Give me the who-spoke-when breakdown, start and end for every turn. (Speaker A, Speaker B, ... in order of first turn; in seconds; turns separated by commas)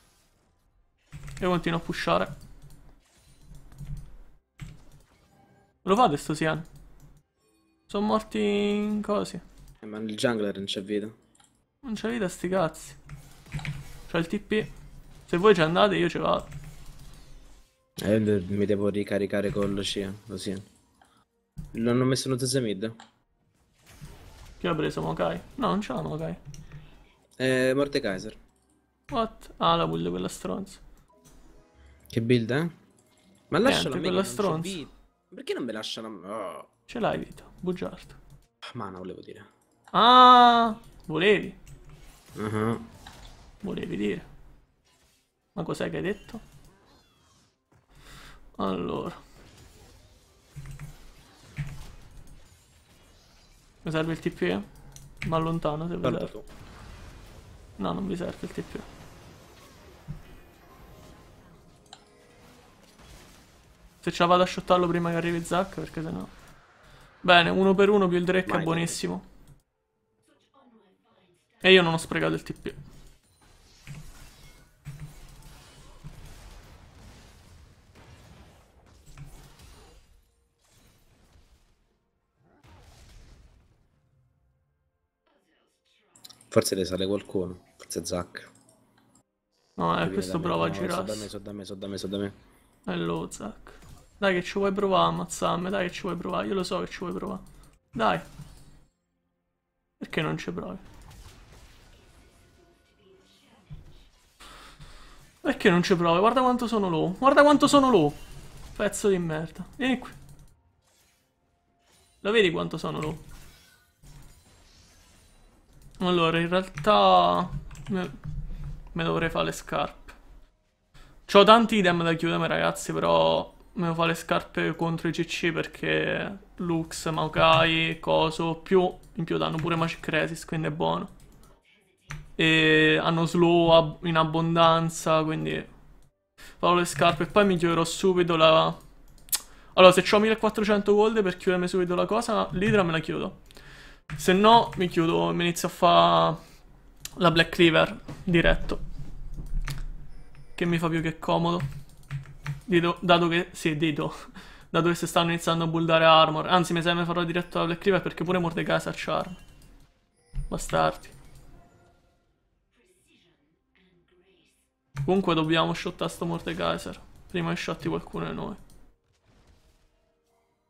Speaker A: 1.4-2.3, Speaker A: 5.8-6.7, Speaker A: 7.9-9.4, Speaker B: 9.8-11.1, Speaker A: 11.8-13.0, Speaker A: 14.1-14.7, Speaker A: 15.3-16.5, Speaker B: 18.0-20.7, Speaker B: 21.7-22.9, Speaker A: 24.6-26.4, Speaker B: 27.4-28.4, Speaker A: 29.1-30.8, Speaker B: 32.1-32.7, Speaker B: 33.5-36.7, Speaker A: 33.6-34.8, Speaker A: 36.9-38.2, Speaker B: 38.6-39.5, Speaker A: 39.9-41.6, Speaker B: 42.4-42.9, Speaker A: 43.6-44.3, Speaker A: 45.5-46.4, Speaker A: 48.6-49.2, Speaker A: 53.8-54.7, Speaker A: 55.2-56.3, Speaker B: 56.0-56.5, Speaker A: 57.8-58.9, Speaker A: 64.0-66.3, Speaker A: 67.2-69.2, Speaker B: 68.5-69.0, Speaker A: 71.6-72.8, Speaker B: 86.5-88.5, Speaker A: 89.8-91.3, Speaker B: 90.0-92.4, Speaker A: 92.9-98.3, Speaker A: 100.0-100.8, Speaker A: 105.4-108.2, Speaker A: 108.8-110.2, Speaker A: 112.2-113.2, Speaker A: 116.0-118.2, Speaker A: 118.9-120.2, Speaker A: 121.3-131.1, Speaker A: 132.4-135.7, Speaker A: 136.6-138.8, Speaker A: 139.7-143.4, Speaker A: 144.2-146.4, Speaker A: 147.2-148.8, Speaker A: 150.6-151.7, Speaker A: 152.7-159.4, Speaker A: 160.5-161.2, Speaker A: 165.1-168.6